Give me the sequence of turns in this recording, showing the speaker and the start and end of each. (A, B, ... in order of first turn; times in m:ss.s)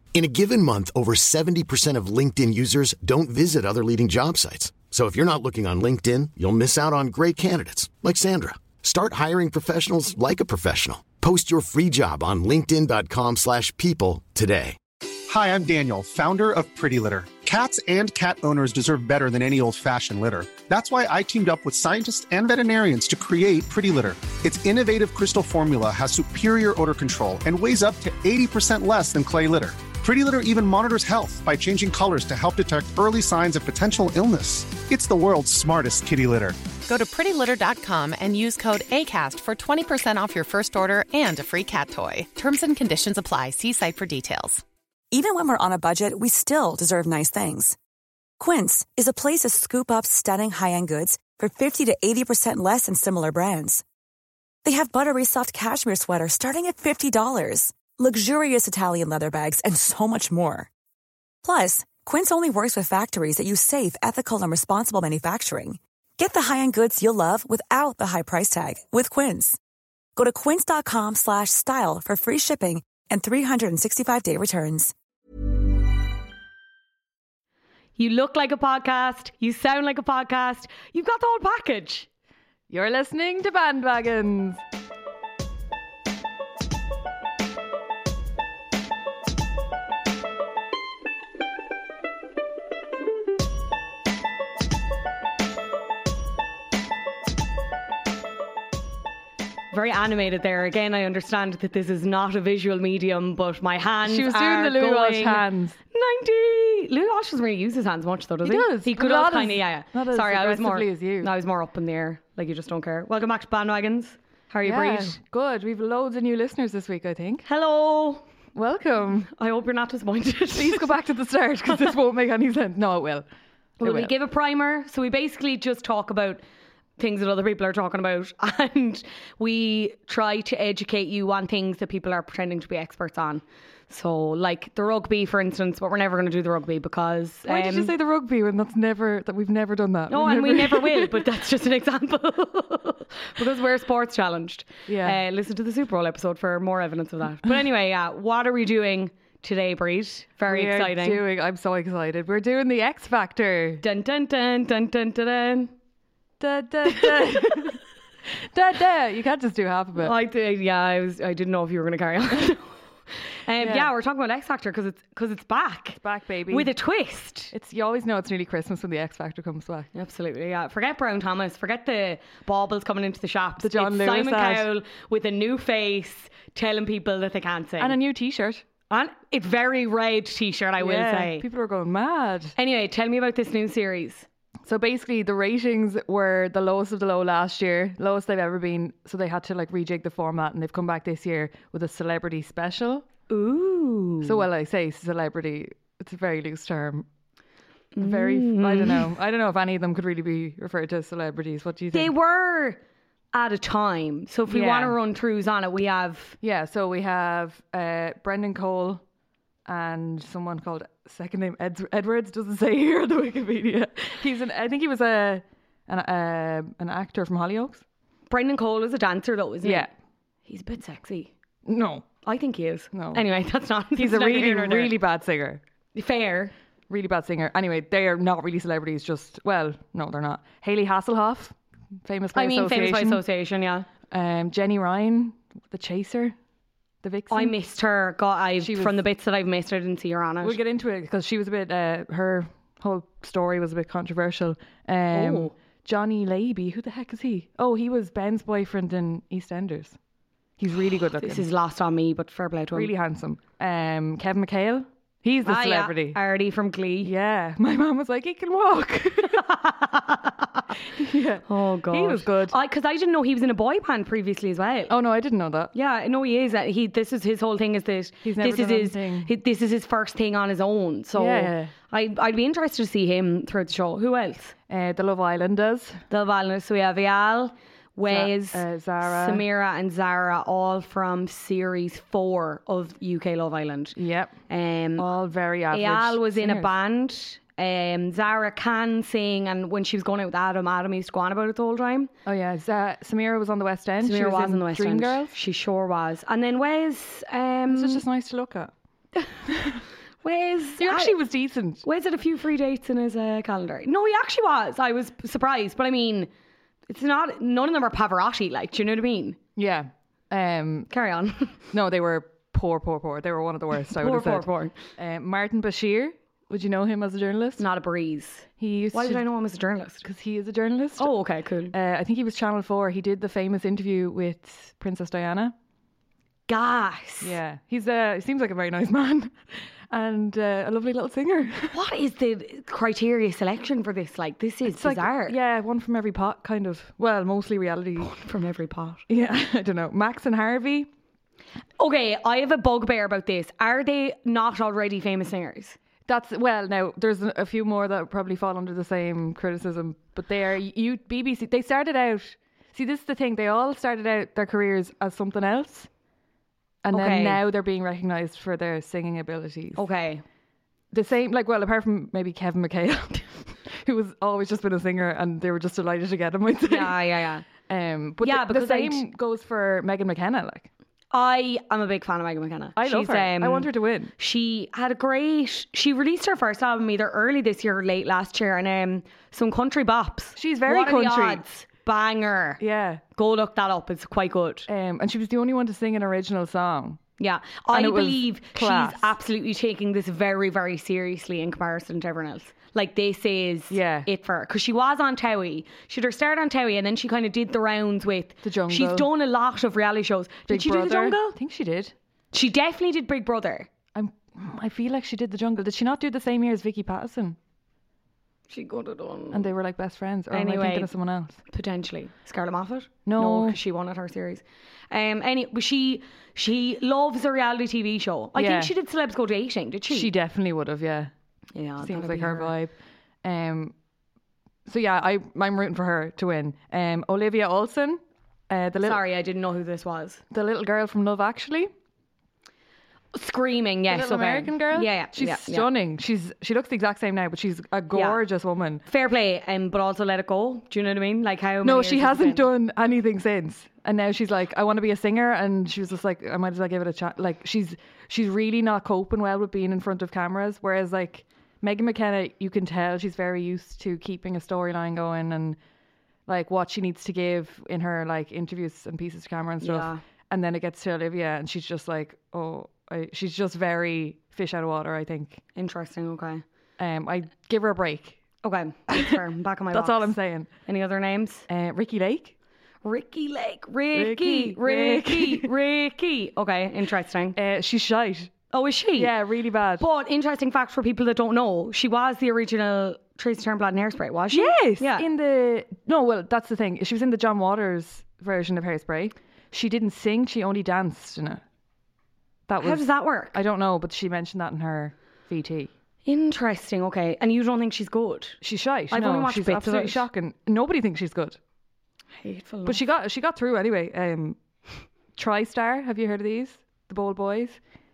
0:00.1-0:14.8 A
0:15.3-0:36.6 B
0:36.9-0:44.6 C
0:45.1-0:47.8 D
0:48.4-0:53.8 D
0:54.6-1:00.7 D
1:01.4-1:09.6 D
1:10.2-1:14.9 D
1:18.0-1:22.1 E
1:22.7-1:24.6 F
1:39.7-1:55.2 E
1:44.0-1:45.8 F
1:48.4-1:51.3 F
1:54.6-1:57.4 F
1:57.4-1:58.3 E
1:58.6-1:59.3 F
1:59.3-2:00.9 E
2:00.5-2:03.2 F
2:03.8-2:06.4 E
2:03.8-2:04.1 F
2:07.0-2:17.9 E
2:17.5-2:21.2 F
2:20.1-2:31.2 E
2:24.9-2:25.2 F
2:30.5-2:33.8 F
2:33.8-2:35.7 E
2:36.4-2:37.8 F
2:38.5-2:40.2 F
2:40.0-2:42.8 E
2:43.4-2:47.5 E
2:43.6-2:43.9 F
2:46.0-2:46.7 F
2:47.5-2:49.9 F
2:49.9-2:58.0 E
2:53.6-2:54.7 F
2:57.8-2:58.6 F
2:58.9-3:01.4 E
3:00.8-3:02.6 F
3:02.6-3:04.3 E
3:04.7-3:13.0 F
3:13.3-3:14.5 E
3:14.2-3:17.1 F
3:18.0-3:19.1 E
3:18.0-3:22.1 F
3:21.9-3:22.8 E
3:23.3-3:26.4 E
3:24.5-3:25.0 F
3:26.4-3:29.0 F
3:29.7-3:37.8 F
3:38.3-3:39.9 E
3:39.6-3:39.9 F
3:40.5-3:41.3 E
3:41.6-3:42.1 F
3:42.2-3:45.0 E
3:42.9-3:43.2 F
3:44.0-3:45.6 F
3:45.9-3:46.5 E
3:46.9-3:53.2 F
3:52.3-3:53.9 E
3:54.1-3:56.4 F
3:57.0-3:57.5 F
3:57.3-4:00.6 E
3:58.6-3:59.0 F
4:00.4-4:10.0 F
4:05.1-4:05.5 E
4:10.6-4:11.4 F
4:11.2-4:12.9 E
4:12.7-4:16.2 F
4:15.4-4:17.1 E
4:17.0-4:19.5 F
4:19.4-4:20.6 E
4:21.0-4:22.6 F
4:21.5-4:24.9 E
4:24.9-4:25.7 F
4:25.7-4:34.5 E
4:28.2-4:29.3 F
4:31.1-4:31.7 F
4:34.7-4:36.0 F
4:36.1-4:44.0 E
4:38.1-4:39.4 F
4:44.0-4:44.4 F
4:44.5-4:45.0 E
4:45.0-4:46.7 F
4:45.7-4:52.1 E
4:52.2-4:55.3 F
4:54.0-4:58.0 E
4:57.7-4:58.7 F
4:59.5-4:59.8 F
5:00.2-5:01.2 E
5:00.8-5:01.8 F
5:01.8-5:06.3 E
5:06.9-5:09.4 E
5:09.6-5:10.9 F
5:10.9-5:11.6 E
5:11.7-5:17.6 F
5:14.0-5:14.8 E
5:17.6-5:20.0 E
5:18.6-5:19.2 F
5:20.0-5:21.1 F
5:21.0-5:21.7 E
5:21.7-5:25.5 F
5:26.5-5:27.4 E
5:27.2-5:31.8 F
5:31.7-5:35.4 E
5:34.7-5:38.2 F
5:38.0-5:39.0 E
5:39.1-5:40.9 F
5:41.8-5:45.8 E
5:46.1-5:55.9 F
5:56.8-5:59.8 F
5:56.9-5:57.4 E
5:59.8-6:00.2 E
6:00.9-6:10.7 F
6:06.7-6:07.5 E
6:08.2-6:09.0 E
6:11.1-6:13.7 E
6:12.8-6:14.1 F
6:14.2-6:22.6 E
6:20.4-6:21.4 F
6:22.6-6:23.0 F
6:23.2-6:24.7 E
6:24.7-6:27.0 F
6:27.2-6:41.4 E
6:27.7-6:29.2 F
6:33.7-6:34.1 F
6:38.4-6:39.1 F
6:40.5-6:41.9 F
6:42.3-6:43.7 E
6:44.0-6:47.4 F
6:48.5-6:49.5 E
6:49.3-6:51.4 F
6:50.3-6:50.9 E
6:51.5-7:00.1 E
6:53.1-6:53.6 F
6:58.4-6:58.7 F
6:59.9-7:01.1 F
7:01.6-7:02.5 E
7:01.8-7:03.7 F
7:04.7-7:09.0 F
7:08.8-7:10.2 E
7:10.3-7:11.7 F
7:13.1-7:15.7 E
7:13.9-7:18.8 F
7:17.9-7:18.2 E
7:18.9-7:22.5 E
7:21.6-7:35.6 F
7:36.3-7:45.4 F
7:39.6-7:40.0 E
7:45.6-7:46.4 E
7:46.8-7:48.2 F
7:48.4-7:50.1 E
7:48.9-7:49.2 F
7:49.7-7:50.5 F
7:50.7-7:51.4 E
7:51.5-7:52.3 F
7:52.8-7:57.4 E
7:53.9-7:55.5 F
7:57.4-7:58.3 F
7:58.5-7:59.1 E
7:59.0-7:59.8 F
7:59.8-8:05.1 E
8:04.3-8:11.4 F
8:12.5-8:15.7 F
8:12.6-8:13.4 E
8:16.0-8:18.4 E
8:18.4-8:21.4 F
8:18.9-8:20.0 E
8:22.2-8:22.8 E
8:22.6-8:24.4 F
8:25.2-8:27.6 F